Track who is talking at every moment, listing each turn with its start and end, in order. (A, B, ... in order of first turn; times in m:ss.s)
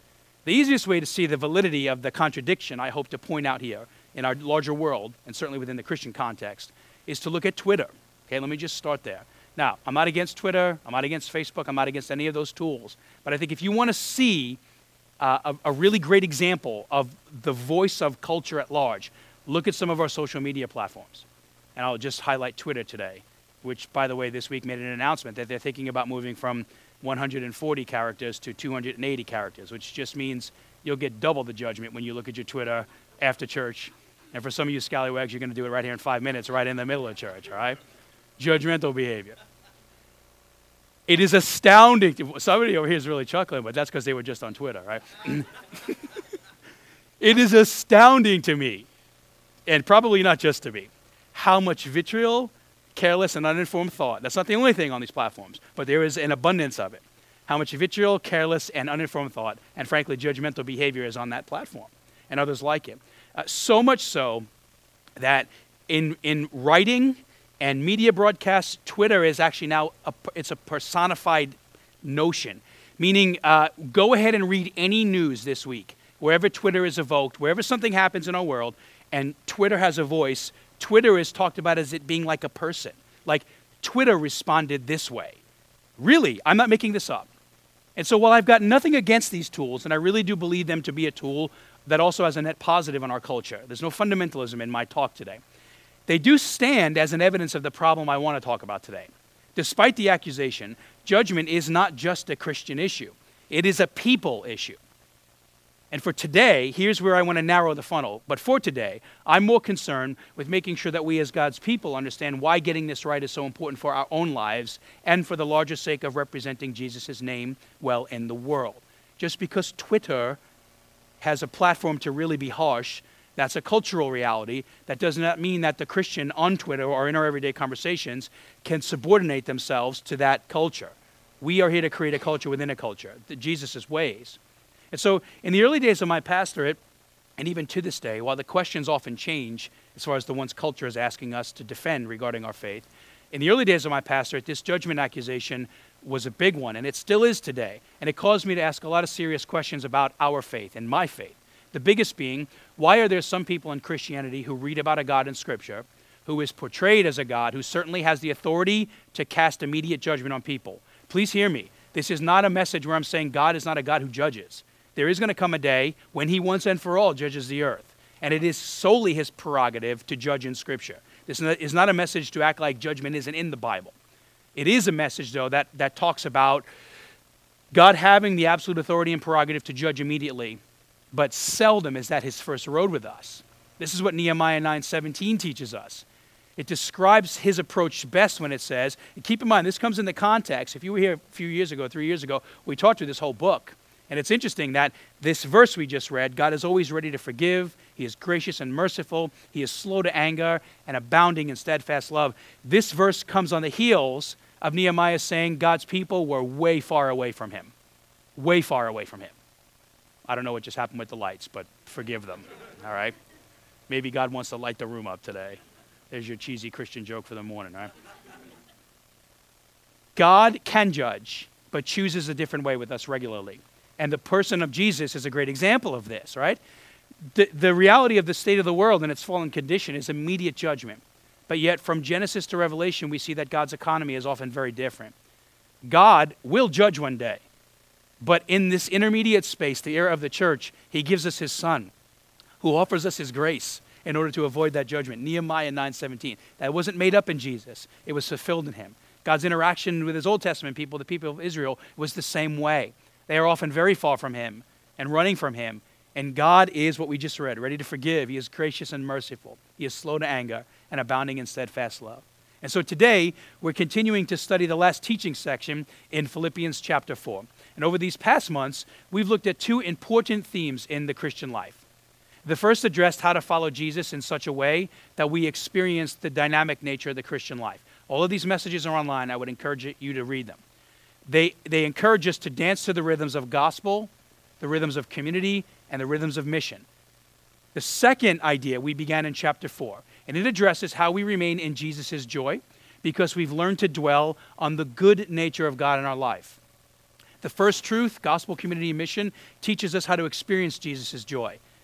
0:00.4-0:14.6 A
0:15.2-0:37.8 A
0:38.4-0:39.4 A
0:41.1-0:46.1 A
0:47.2-0:48.9 A
0:49.7-1:04.5 A
1:05.2-1:25.4 A
1:26.0-1:27.3 A
1:28.0-1:35.4 A
1:36.1-1:44.8 A
1:45.9-2:00.4 A
2:01.2-2:14.4 A
2:14.9-2:16.8 A
2:17.4-2:54.0 A
2:54.6-2:56.7 A
2:57.7-3:00.6 A
3:01.1-3:06.1 A
3:06.6-3:27.7 A
3:28.4-3:29.4 A
3:30.3-3:33.1 A
3:33.9-3:37.9 A
3:40.2-3:46.6 A
3:47.3-3:55.1 A
3:55.8-3:57.4 A
3:58.2-4:01.9 A
4:02.6-4:31.8 A
4:32.4-4:40.6 A
4:41.3-4:46.9 A
4:47.7-4:56.6 A
4:57.4-5:01.6 A